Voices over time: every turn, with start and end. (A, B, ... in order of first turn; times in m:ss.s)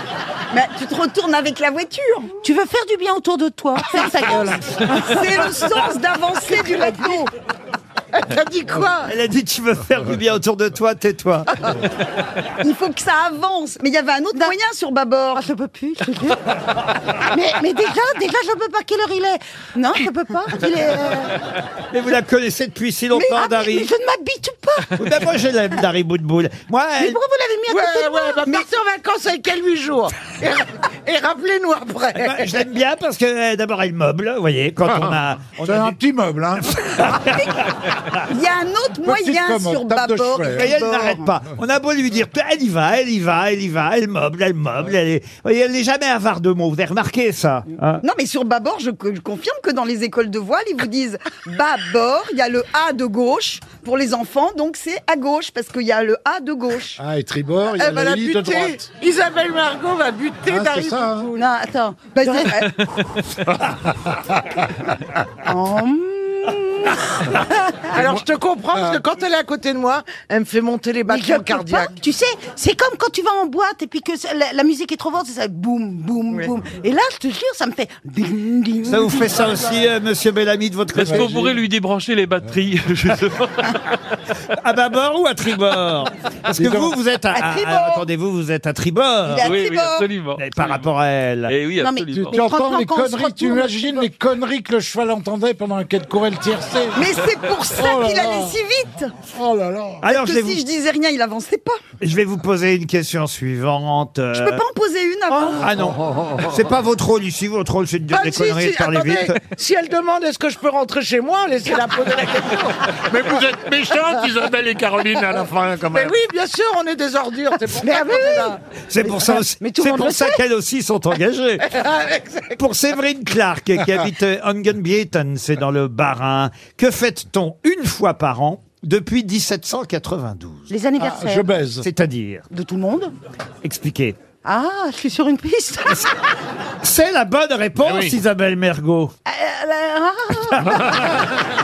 0:00.5-0:02.3 A
0:02.4-0:05.4 B
0:04.5-0:07.3 A
0:08.1-0:09.1 C
0:08.8-0:11.7 D
0:12.6-0:15.4 A
0:15.3-0:16.6 B
0:17.1-0:21.4 B
0:21.9-0:23.9 D
0:23.1-0:23.4 A
0:23.3-0:25.0 B
0:25.0-0:27.2 D
0:27.0-0:28.6 B
0:27.7-0:32.5 C
0:32.2-0:35.9 D
0:35.6-0:36.8 E
0:36.7-0:38.1 D
0:38.2-0:41.3 A
0:39.0-0:40.8 E
0:40.5-0:48.0 D
0:48.0-0:57.0 A
0:57.0-0:58.8 E
0:57.8-1:01.2 C
1:00.5-1:01.3 E
1:01.3-1:02.7 B
1:02.1-1:03.2 A
1:05.4-1:08.0 B
1:07.9-1:09.0 E
1:07.9-1:11.9 C
1:11.1-1:19.8 B
1:18.8-1:21.6 D
1:20.9-1:23.9 F
1:21.0-1:21.4 E
1:24.5-1:29.5 D
1:26.5-1:27.0 E
1:27.3-1:28.1 A
1:29.3-1:30.1 A
1:29.4-1:30.8 F
1:30.4-1:31.5 D
1:31.5-1:32.4 F
1:31.8-1:34.0 B
1:32.1-1:37.0 E
1:37.0-1:39.1 A
1:37.7-1:38.6 E
1:39.2-1:40.0 E
1:40.0-1:40.6 D
1:40.0-1:41.8 A
1:42.0-1:44.6 D
1:44.3-1:45.7 A
1:45.5-1:49.4 D
1:48.1-1:53.4 C
1:53.0-1:56.2 G
1:55.3-1:58.6 C
1:57.8-2:00.4 B
1:58.9-2:01.7 D
2:01.7-2:02.0 G
2:01.9-2:02.5 C
2:02.6-2:10.7 D
2:10.7-2:11.5 B
2:11.0-2:11.9 E
2:11.8-2:12.4 D
2:12.5-2:13.1 B
2:13.6-2:14.2 D
2:14.4-2:16.1 B
2:16.8-2:19.1 D
2:19.2-2:21.4 B